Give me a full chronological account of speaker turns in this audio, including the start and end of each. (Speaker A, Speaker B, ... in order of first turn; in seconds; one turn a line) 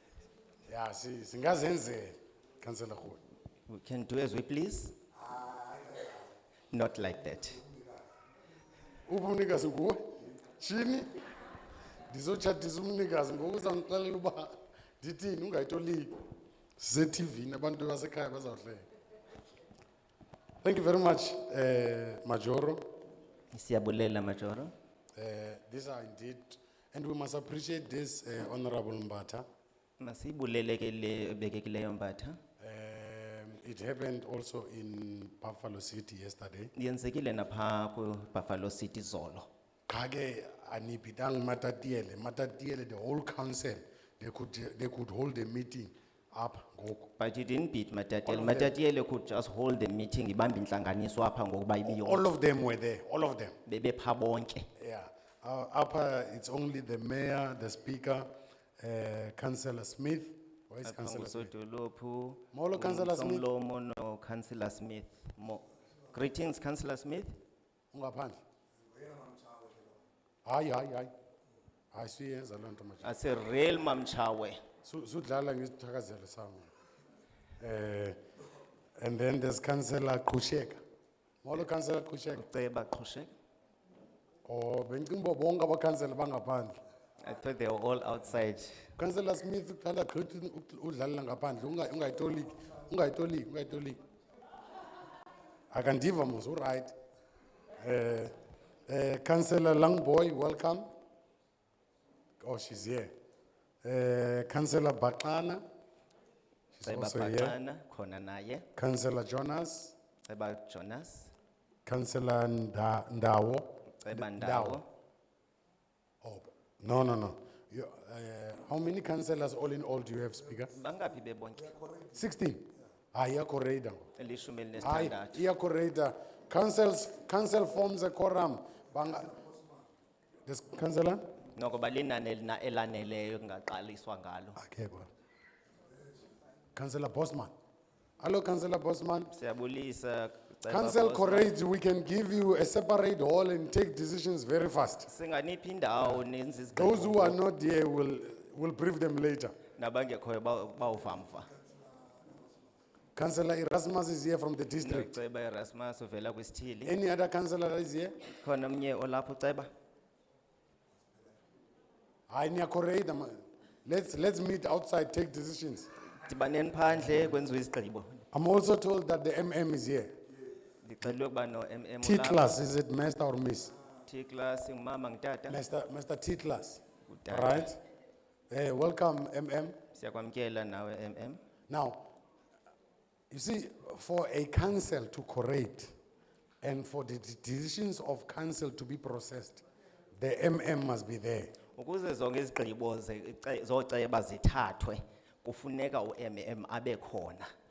Speaker A: 0.7-3.2
Speaker B: 3.7-5.0
Speaker B: 6.7-7.6
Speaker A: 9.1-11.1
Speaker A: 12.1-16.1
Speaker A: 16.8-18.9
Speaker A: 20.6-22.8
Speaker B: 23.5-24.7
Speaker A: 25.2-29.4
Speaker B: 30.0-32.4
Speaker A: 32.6-36.7
Speaker B: 36.8-39.5
Speaker A: 39.9-47.1
Speaker B: 47.2-52.3
Speaker A: 48.3-48.7
Speaker A: 51.9-53.6
Speaker B: 53.7-54.7
Speaker A: 54.8-58.3
Speaker A: 58.8-61.5
Speaker B: 60.9-67.4
Speaker A: 62.5-63.5
Speaker A: 67.9-68.4
Speaker A: 70.5-71.1
Speaker A: 71.9-73.1
Speaker B: 73.0-74.6
Speaker A: 74.8-76.7
Speaker A: 77.6-78.2
Speaker A: 79.0-80.8
Speaker A: 81.4-82.4
Speaker B: 82.3-83.3
Speaker A: 84.5-86.7
Speaker B: 87.2-88.8
Speaker A: 89.0-94.0
Speaker A: 95.7-96.9
Speaker A: 97.8-98.3
Speaker A: 98.9-100.9
Speaker A: 102.4-103.1
Speaker A: 103.8-105.6
Speaker A: 106.7-107.6
Speaker B: 106.8-108.7
Speaker A: 108.8-109.9
Speaker B: 110.3-111.3
Speaker A: 111.9-114.8
Speaker B: 114.0-114.8
Speaker A: 116.2-120.8
Speaker B: 120.7-121.7
Speaker A: 122.1-124.1
Speaker B: 124.2-125.4
Speaker A: 124.8-129.4
Speaker A: 130.5-131.2
Speaker B: 131.6-134.6
Speaker A: 134.6-135.1
Speaker A: 136.8-137.5
Speaker A: 138.2-139.3
Speaker B: 139.3-141.5
Speaker A: 140.7-145.1
Speaker B: 145.1-147.4
Speaker A: 146.7-149.6
Speaker B: 149.8-151.5
Speaker A: 153.2-155.2
Speaker B: 154.8-156.9
Speaker A: 156.8-158.2
Speaker B: 158.4-159.7
Speaker A: 162.3-165.9
Speaker B: 166.2-168.2
Speaker A: 168.3-170.1
Speaker B: 170.8-172.6
Speaker A: 172.0-173.7
Speaker B: 174.1-175.6
Speaker A: 175.5-177.8
Speaker B: 177.1-177.7
Speaker A: 178.5-179.8
Speaker B: 179.9-181.4
Speaker A: 181.7-182.1
Speaker A: 183.3-185.9
Speaker A: 186.6-189.6
Speaker A: 190.2-191.6
Speaker B: 191.8-197.5